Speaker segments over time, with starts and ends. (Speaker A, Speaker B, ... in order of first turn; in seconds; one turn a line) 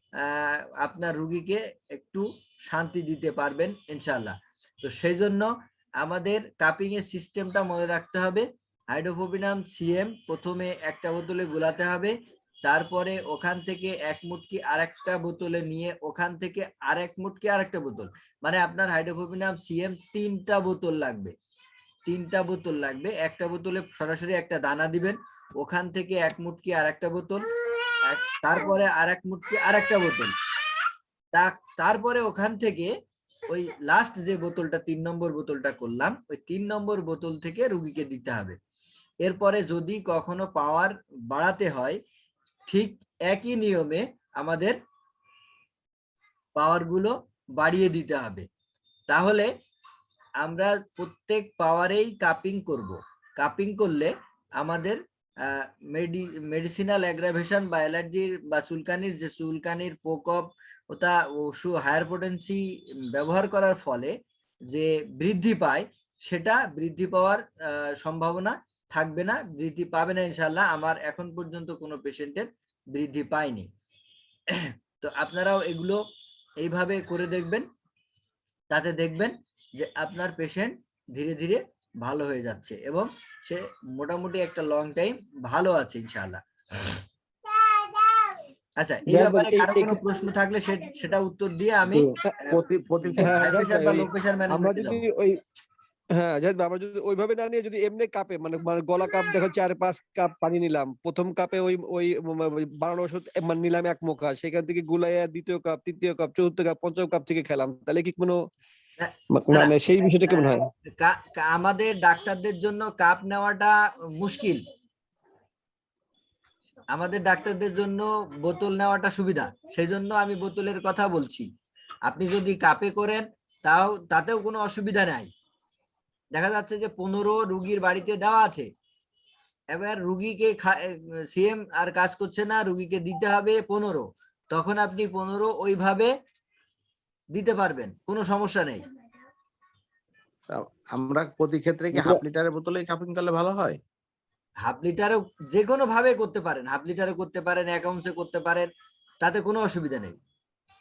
Speaker A: 0.2-21.3
Speaker A: 22.1-27.4
Speaker A: 28.0-30.3
Speaker A: 31.3-32.9
Speaker A: 33.5-38.6
Speaker A: 39.2-42.0
Speaker A: 42.7-44.8
Speaker A: 46.5-48.5
Speaker A: 49.1-49.5
Speaker A: 50.4-62.6
Speaker A: 63.1-64.2
Speaker A: 64.7-73.7
Speaker A: 74.5-76.0
Speaker A: 76.6-77.7
Speaker A: 78.7-87.0
Speaker A: 88.8-95.0
Speaker B: 89.1-90.0
Speaker C: 92.0-93.3
Speaker B: 93.2-95.4
Speaker B: 96.1-108.4
Speaker A: 109.0-109.7
Speaker B: 109.3-110.7
Speaker A: 110.2-114.6
Speaker A: 116.9-121.5
Speaker A: 122.0-125.3
Speaker A: 126.3-128.7
Speaker A: 129.7-136.1
Speaker A: 137.3-138.8
Speaker C: 140.5-143.8
Speaker B: 141.9-142.2
Speaker A: 144.6-148.7
Speaker A: 149.2-150.2